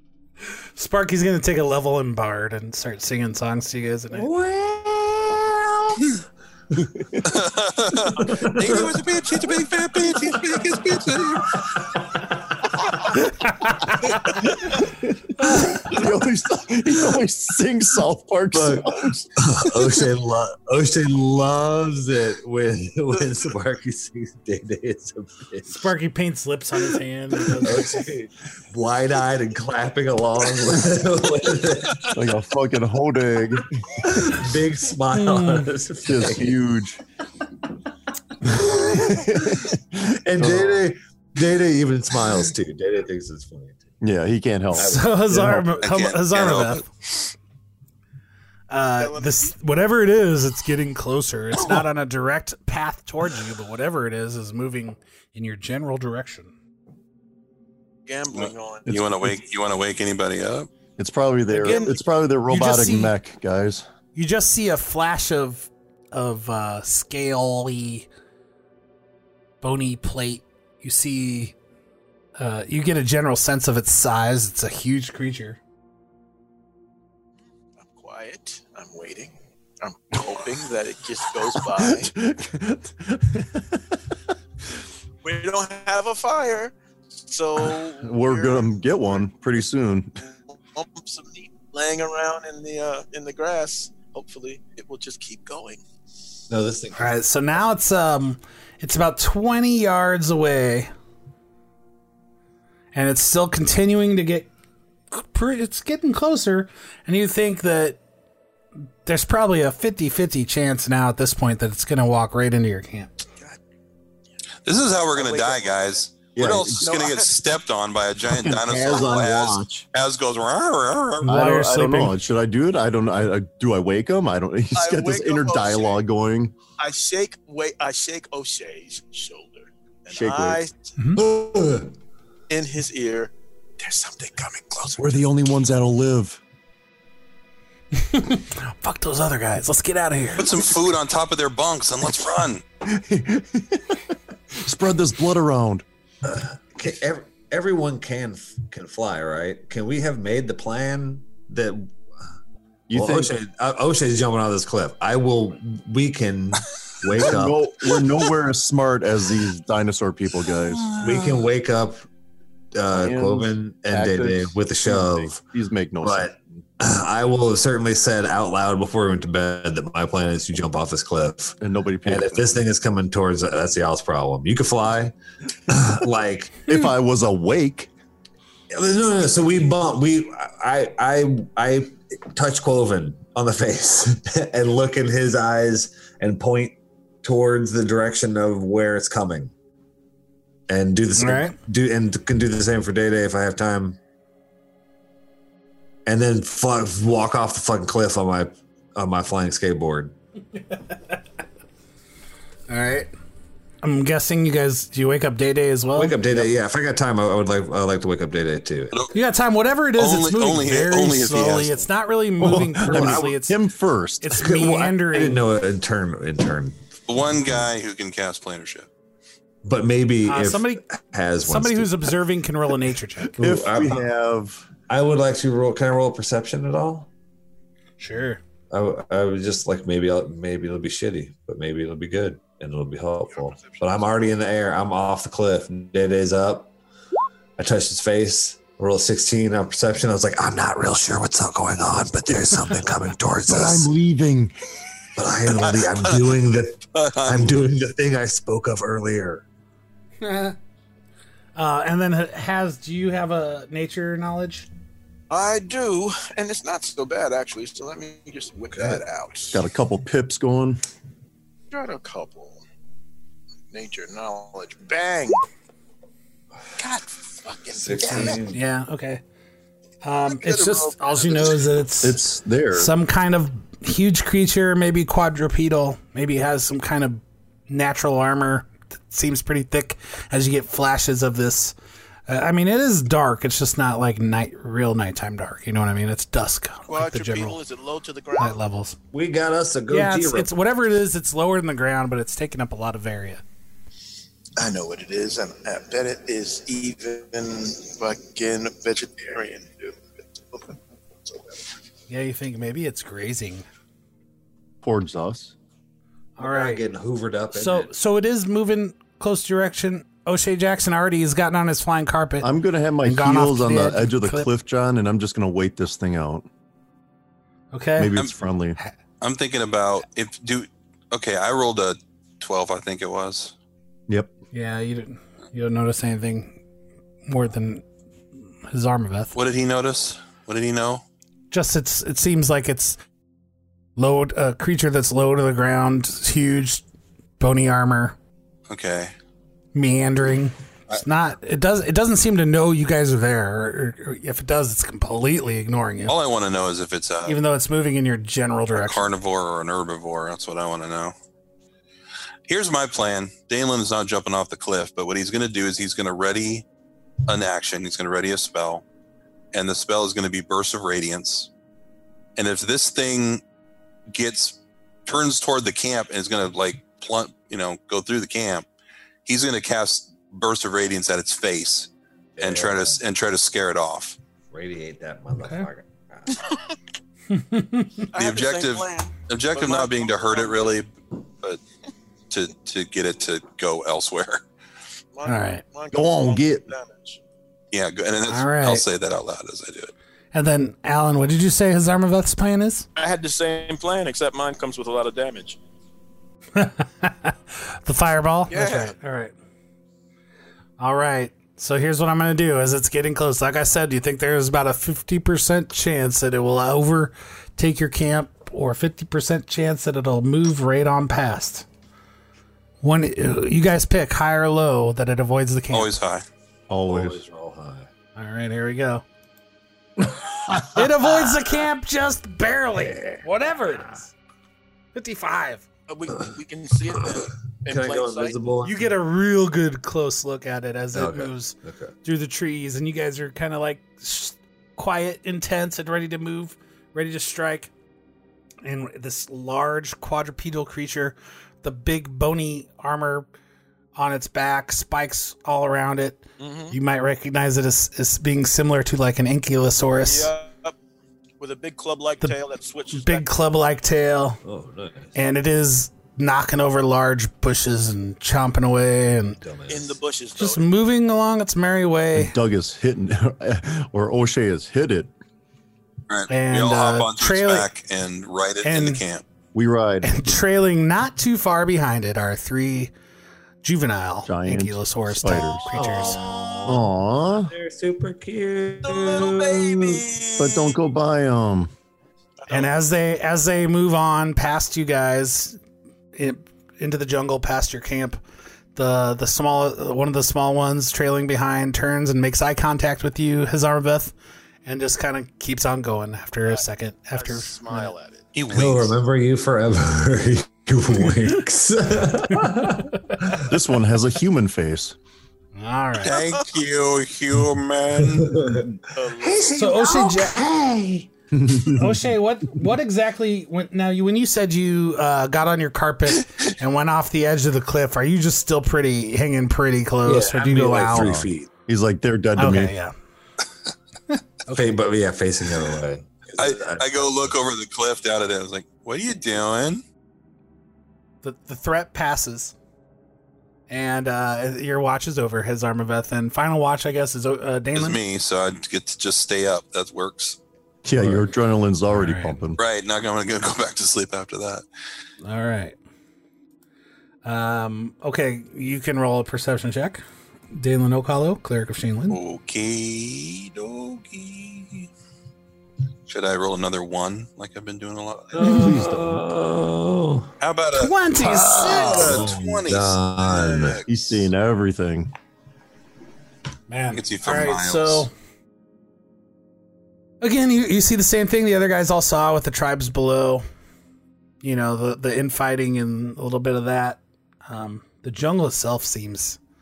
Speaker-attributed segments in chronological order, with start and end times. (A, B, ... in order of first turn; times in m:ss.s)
0:00.8-0:04.3 A
0:04.1-0:06.1 B
0:06.8-0:07.3 C
0:07.2-0:11.7 D
0:08.2-0:08.9 B
0:14.1-0:19.4 C
0:18.5-0:25.9 B
0:25.7-0:28.1 A
0:27.4-0:32.1 B
0:32.1-0:34.0 C
0:34.0-0:36.6 B
0:35.1-0:35.7 A
0:36.0-0:37.0 C
0:38.4-0:40.8 C
0:38.4-0:39.7 B
0:40.2-0:43.8 B
0:44.0-0:45.7 C
0:44.7-0:45.2 B
0:44.8-0:46.8 A
0:45.8-0:47.3 D
0:48.7-0:56.5 A
0:49.0-0:49.5 E
0:58.0-0:59.0 E
0:58.3-1:00.7 D
0:58.9-0:59.4 C
1:01.0-1:03.8 C
1:01.6-1:01.9 E
1:02.5-1:03.1 A
1:04.1-1:08.1 A
1:09.6-1:11.5 A
1:12.4-1:15.6 A
1:17.8-1:22.1 E
1:21.5-1:23.8 C
1:25.2-1:29.2 E
1:28.0-1:30.2 C
1:30.5-1:35.8 E
1:36.5-1:37.1 B
1:37.0-1:40.9 A
1:42.9-1:44.5 A
1:45.1-1:48.0 A
1:49.0-1:53.1 A
1:54.6-2:01.4 D
1:55.1-1:56.0 E
1:56.3-1:56.9 C
1:56.8-1:57.3 E
1:58.3-1:59.8 C
2:01.2-2:06.5 C
2:01.3-2:02.2 A
2:04.7-2:06.0 E
2:06.8-2:10.7 E
2:10.1-2:10.7 C
2:11.1-2:11.9 B
2:12.5-2:15.2 E
2:15.0-2:16.4 C
2:17.9-2:20.6 A
2:20.4-2:22.6 D
2:22.8-2:25.8 C
2:26.2-2:31.9 B
2:32.9-2:33.3 C
2:32.9-2:37.9 B
2:37.1-2:41.0 C
2:41.0-2:42.0 B
2:42.7-2:45.4 B
2:42.9-2:46.6 C
2:46.0-2:55.1 B
2:51.6-2:52.5 C
2:55.7-2:56.6 B
2:56.7-2:57.9 C
2:58.7-3:09.5 B
3:10.7-3:14.0 B
3:11.2-3:11.6 A
3:16.0-3:20.1 B
3:22.7-3:23.1 A
3:23.8-3:26.4 A
3:25.9-3:29.0 B
3:29.1-3:33.6 A
3:30.0-3:31.8 D
3:32.4-3:34.4 C
3:32.8-3:33.3 B
3:34.2-3:35.4 A
3:34.4-3:36.8 B
3:37.1-3:38.9 D
3:39.6-3:42.1 B
3:40.3-3:40.8 A
3:41.4-3:43.3 A
3:43.4-3:44.1 B
3:43.4-3:44.7 C
3:44.9-3:47.1 B
3:48.0-3:48.4 A
3:48.7-3:56.7 B
3:53.3-3:54.3 E
3:57.6-4:03.9 B
4:03.5-4:04.5 C
4:05.2-4:09.4 B
4:06.9-4:07.6 D
4:10.2-4:10.6 A
4:11.6-4:14.7 A
4:15.3-4:19.6 E
4:18.7-4:19.0 B
4:19.5-4:20.8 C
4:21.7-4:22.6 E
4:23.7-4:25.4 E
4:26.8-4:28.4 E
4:27.7-4:28.6 B
4:28.0-4:29.2 A
4:30.0-4:32.2 A
4:30.3-4:31.8 E
4:32.0-4:32.9 C
4:32.7-4:41.7 A
4:42.3-4:47.6 A
4:46.9-4:48.6 E
4:48.4-4:49.0 A
4:49.1-4:50.5 B
4:49.9-4:53.4 A
4:54.6-5:00.0 E
5:02.1-5:03.6 A
5:04.8-5:05.5 C
5:06.4-5:06.8 A
5:06.4-5:07.9 B
5:07.5-5:12.5 A
5:12.4-5:16.5 C
5:13.0-5:14.5 A
5:17.7-5:18.1 A
5:18.0-5:18.8 C
5:19.2-5:23.5 D
5:24.5-5:26.6 A
5:27.2-5:27.8 A
5:28.7-5:29.3 A
5:29.3-5:31.0 D
5:31.5-5:33.0 A
5:34.0-5:36.8 A
5:37.4-5:38.2 A
5:38.7-5:39.1 D
5:39.7-5:46.1 A
5:46.1-5:47.4 D
5:47.2-5:49.1 A
5:48.8-5:51.1 D
5:52.5-5:56.6 D
5:57.3-5:58.8 D
5:59.5-6:01.5 D
6:02.4-6:03.4 D
6:04.1-6:08.7 D
6:09.2-6:14.2 D
6:12.4-6:13.0 B
6:14.5-6:16.4 B
6:15.4-6:15.7 A
6:17.3-6:18.1 A
6:18.1-6:20.7 E
6:18.2-6:21.6 D
6:22.3-6:24.4 D
6:25.1-6:27.2 E
6:25.2-6:25.6 A
6:25.9-6:26.6 C
6:27.7-6:29.9 D
6:28.3-6:28.8 A
6:30.3-6:32.9 A
6:33.0-6:35.6 E
6:36.6-6:39.3 A
6:38.5-6:38.9 E
6:40.8-6:51.6 A
6:52.8-6:55.9 A
6:55.7-6:56.2 D
6:56.7-6:57.2 C
6:56.8-6:57.9 B
6:58.2-6:59.0 A
7:00.5-7:04.1 A
7:02.7-7:03.9 B
7:04.9-7:05.6 A
7:05.9-7:08.3 E
7:07.7-7:08.8 B
7:08.6-7:17.7 A
7:10.9-7:11.9 B
7:18.6-7:23.3 A
7:23.9-7:30.3 A
7:26.4-7:26.8 E
7:30.0-7:30.7 E
7:31.4-7:33.2 E
7:32.9-7:34.4 A
7:34.4-7:35.1 B
7:35.1-7:39.4 A
7:39.4-7:40.0 B
7:39.7-7:40.6 E
7:40.4-7:42.3 A
7:42.2-7:45.1 C
7:46.1-7:49.2 D
7:46.3-7:47.7 A
7:48.6-7:49.0 A
7:49.5-7:50.4 C
7:50.0-7:52.9 A
7:53.6-7:56.2 A
7:54.2-7:55.7 C
7:55.7-8:00.0 B
7:56.6-7:57.5 C
7:58.8-8:00.8 E
8:00.4-8:01.7 C
8:02.4-8:02.7 E
8:02.5-8:05.6 A
8:06.1-8:08.2 A
8:08.7-8:14.1 A
8:14.6-8:17.9 A
8:17.1-8:18.2 E
8:18.3-8:19.0 D
8:18.5-8:23.5 B
8:23.4-8:25.0 C
8:25.6-8:26.2 A
8:26.0-8:28.5 D
8:28.0-8:31.1 B
8:28.9-8:29.7 E
8:29.5-8:30.4 A
8:31.3-8:32.0 C
8:31.7-8:41.1 A
8:40.0-8:41.5 B
8:40.9-8:42.7 C
8:42.4-8:42.9 A
8:44.4-8:44.8 A
8:44.5-8:47.3 B
8:46.4-8:49.8 D
8:51.2-8:52.5 A
8:53.7-8:58.0 A
8:57.7-9:00.4 D
9:00.8-9:02.6 C
9:01.9-9:02.4 A
9:02.6-9:04.6 D
9:05.2-9:05.8 A
9:07.2-9:12.2 A
9:12.1-9:14.9 D
9:16.1-9:18.6 D
9:18.3-9:20.3 B
9:18.4-9:19.2 C
9:20.4-9:23.8 D
9:20.8-9:22.2 A
9:21.2-9:23.8 B
9:23.9-9:25.1 C
9:26.7-9:28.1 A
9:26.9-9:28.1 D
9:30.2-9:33.4 A
9:34.4-9:39.4 A